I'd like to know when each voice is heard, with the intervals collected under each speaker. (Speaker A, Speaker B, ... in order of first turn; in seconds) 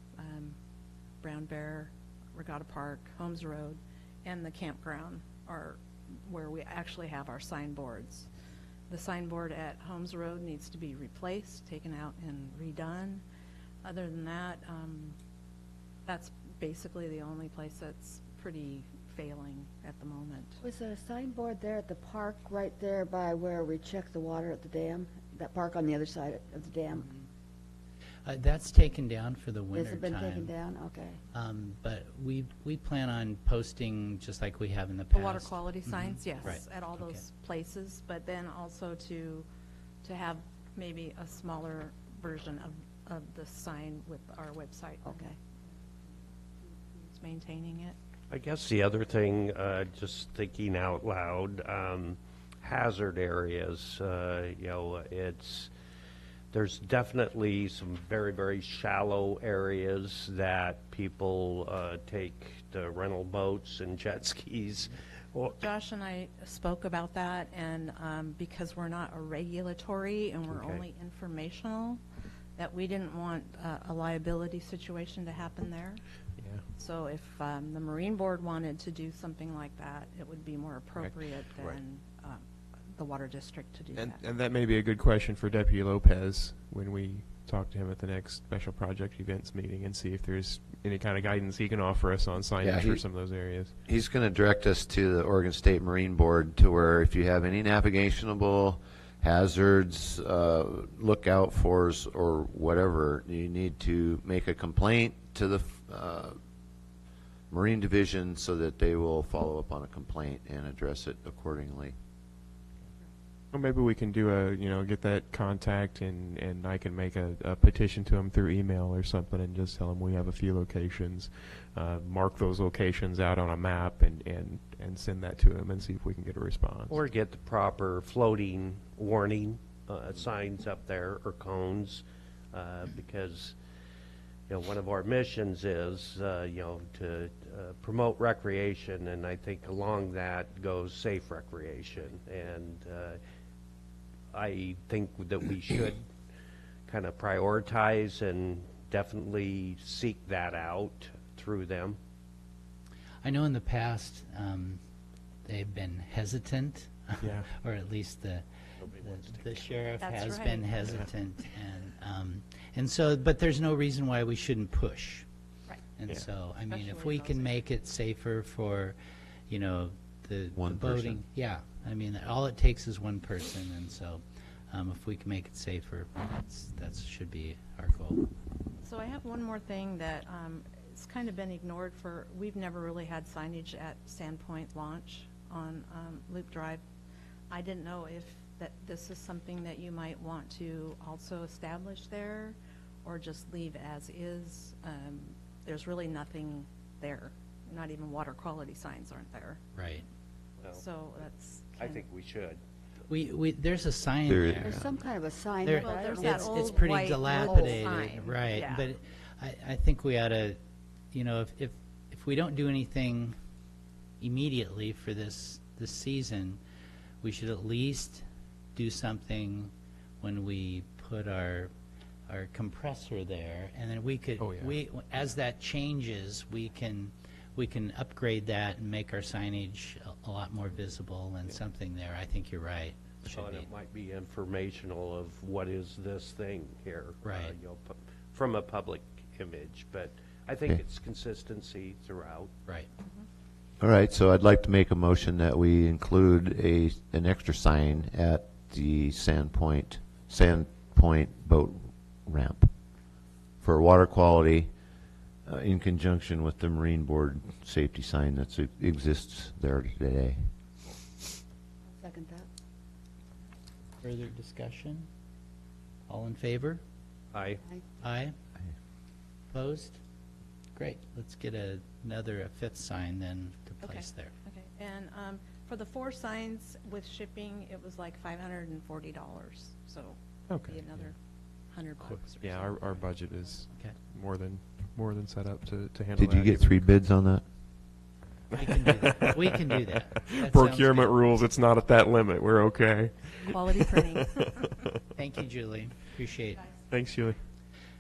Speaker A: 0.2-0.6, 1.2-8.3, 8.9-13.2, 13.8-15.2, 16.1-20.6, 35.1-39.5, 40.0-45.3, 46.6-48.0, 65.6-72.0, 72.6-76.0, 76.7-84.3, 160.0-160.9, 166.7-167.6, 178.8-186.8, 187.5-199.6, 200.7-202.1, 205.7-208.9, 273.8-283.3, 293.5-294.6
Speaker B: 20.6-27.1, 29.7-31.2, 45.0-45.4, 204.6-206.8, 207.4-207.8, 262.0-262.5
Speaker C: 28.2-30.5, 31.3-37.2, 153.2-154.8, 155.4-165.3, 165.9-169.0, 169.5-178.2, 199.7-200.1, 203.1-204.9, 205.6-210.6, 211.1-213.3, 214.2-216.6, 217.2-218.2, 218.8-221.7, 222.3-233.7, 237.2-237.5, 264.0-265.1, 266.1-266.8, 268.0-268.4, 269.5-270.0, 270.8-274.3, 288.5-291.2, 295.2-296.7
Speaker D: 48.3-55.7, 56.5-65.6, 126.9-133.6, 134.5-143.2, 144.3-146.1, 146.9-152.0, 158.8-159.7, 201.8-202.6, 233.2-242.5, 267.3-267.6
Speaker E: 76.4-76.6, 84.0-93.8, 113.5-127.0, 157.2-157.5, 224.4-224.8, 280.5-280.9, 282.1-286.9, 290.4-294.0, 296.9-297.4
Speaker F: 92.6-106.4, 107.5-111.9, 170.5-171.2, 204.3-204.9, 243.8-252.7, 253.6-254.7, 255.4-260.5, 286.2-287.5